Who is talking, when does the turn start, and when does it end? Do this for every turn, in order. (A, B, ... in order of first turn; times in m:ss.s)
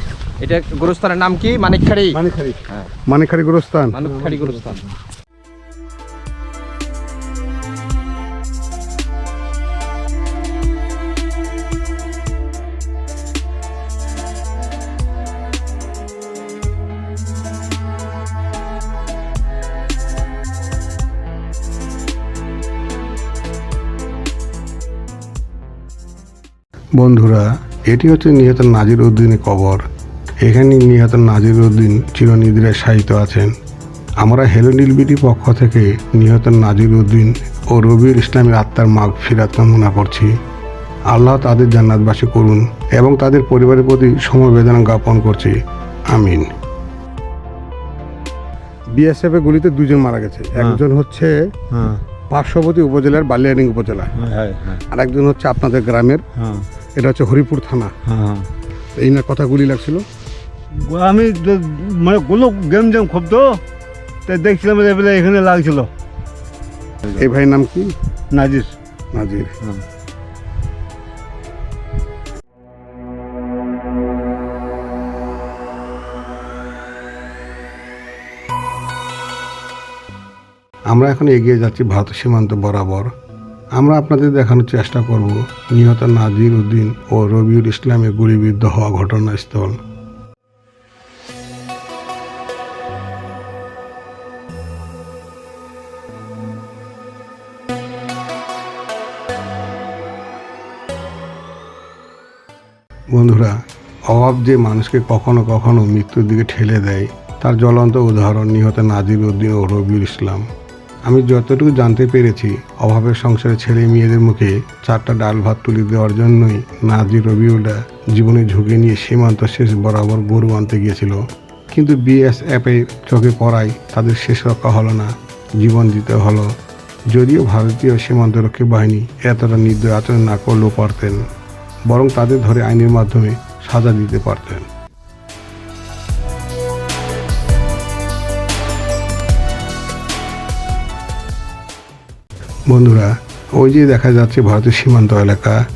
0:00.4-0:02.2 A
0:02.2-0:02.6 B
0:03.1-0:04.0 C
0:03.9-0:04.8 A
0:04.0-0:04.8 B
0:27.0-0:29.8 C
0:30.4-0:33.5 C
0:34.2-0:40.3 C
0:41.1-0:45.6 C
0:46.1-0:46.5 C
0:48.9-0:51.3 C
0:50.6-0:50.8 B
0:51.7-0:52.0 B
0:52.3-0:54.1 C
0:54.2-0:54.8 B
0:54.9-0:56.2 C
0:56.4-0:56.7 B
0:57.0-0:57.9 C
0:58.1-0:58.5 B
0:59.0-1:00.0 C
1:00.9-1:03.6 B
1:04.3-1:05.9 B
1:07.2-1:07.9 C
1:08.3-1:08.7 B
1:09.1-1:09.5 C
1:20.9-1:23.1 C
1:23.8-1:29.8 C
1:43.1-1:43.6 C
1:44.1-1:50.4 C
1:51.1-2:01.2 C
2:01.7-2:06.5 C
2:07.1-2:11.2 C
2:11.9-2:14.7 C
2:22.7-2:25.6 C